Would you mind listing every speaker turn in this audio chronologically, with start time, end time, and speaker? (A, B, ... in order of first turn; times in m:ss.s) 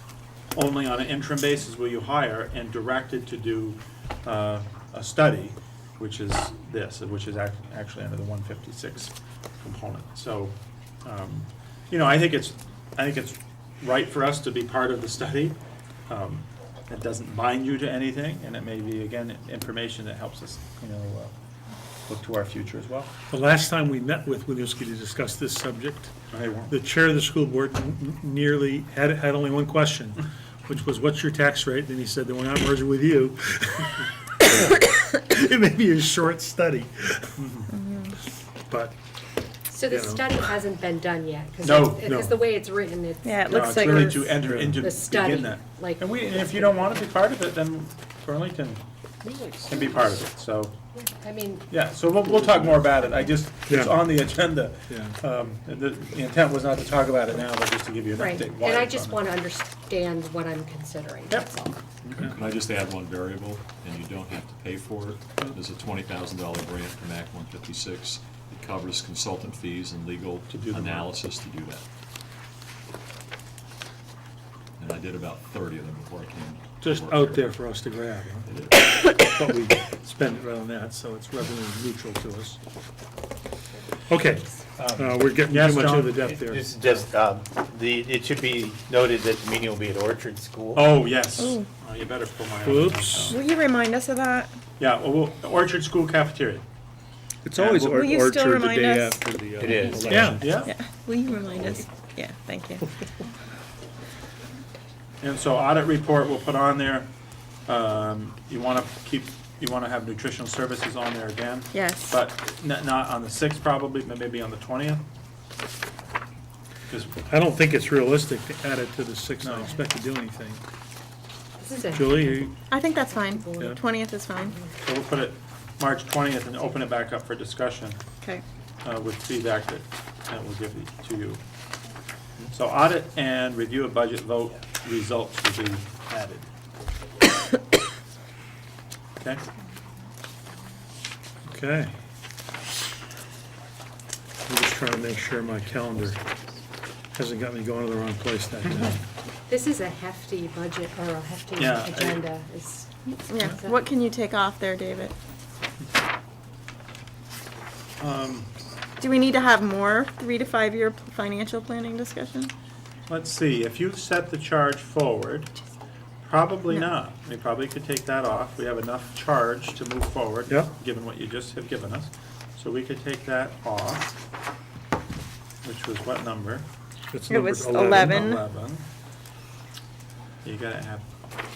0:00.5-0:15.6 A
0:16.1-0:21.3 A
0:22.1-0:23.1 A
0:23.3-0:26.1 B
0:26.3-0:26.7 A
0:26.7-0:37.5 B
0:37.4-0:37.7 A
0:37.7-0:38.1 C
0:38.7-0:39.0 B
0:39.7-0:47.1 D
0:39.8-0:40.3 B
0:41.6-0:42.1 A
0:42.0-0:42.3 B
0:43.2-0:44.2 C
0:43.5-0:48.8 A
0:44.2-0:44.8 B
0:49.2-0:50.3 E
0:49.7-0:50.7 A
0:50.9-0:51.7 D
0:51.7-0:59.2 A
0:53.7-0:54.1 B
0:54.9-0:55.2 B
0:58.1-1:01.8 D
1:02.0-1:02.3 A
1:02.2-1:11.8 F
1:10.5-1:11.0 A
1:14.8-1:17.5 F
1:16.8-1:22.6 B
1:18.5-1:18.8 F
1:24.1-1:26.6 B
1:24.8-1:25.2 G
1:25.5-1:26.2 A
1:26.2-1:30.9 G
1:30.7-1:33.4 A
1:31.4-1:31.7 C
1:32.6-1:33.4 B
1:33.3-1:34.5 C
1:34.8-1:36.6 A
1:37.4-1:40.7 E
1:37.6-1:38.1 A
1:37.8-1:39.2 C
1:39.6-1:40.4 G
1:40.1-1:40.4 B
1:40.2-1:40.8 A
1:40.6-1:42.9 C
1:45.2-1:47.1 A
1:47.7-1:55.0 A
1:51.7-1:52.2 C
1:56.9-1:57.2 A
1:57.2-2:00.6 B
1:59.4-1:59.7 A
2:01.6-2:03.8 D
2:01.9-2:02.6 B
2:02.7-2:04.6 C
2:04.3-2:04.7 D
2:04.8-2:08.0 A
2:08.8-2:11.4 A
2:12.5-2:16.5 A
2:19.2-2:19.4 A
2:21.4-2:21.9 B
2:24.5-2:26.2 B
2:27.2-2:29.0 B
2:29.5-2:33.8 D
2:31.6-2:32.2 A
2:33.3-2:35.2 C
2:38.0-2:38.5 A
2:39.0-2:42.5 C
2:43.1-2:45.5 A
2:46.2-2:54.1 A
2:55.6-2:56.7 A
2:57.1-2:58.4 B
2:57.3-2:58.4 C
2:57.8-2:58.8 A
3:00.4-3:01.1 A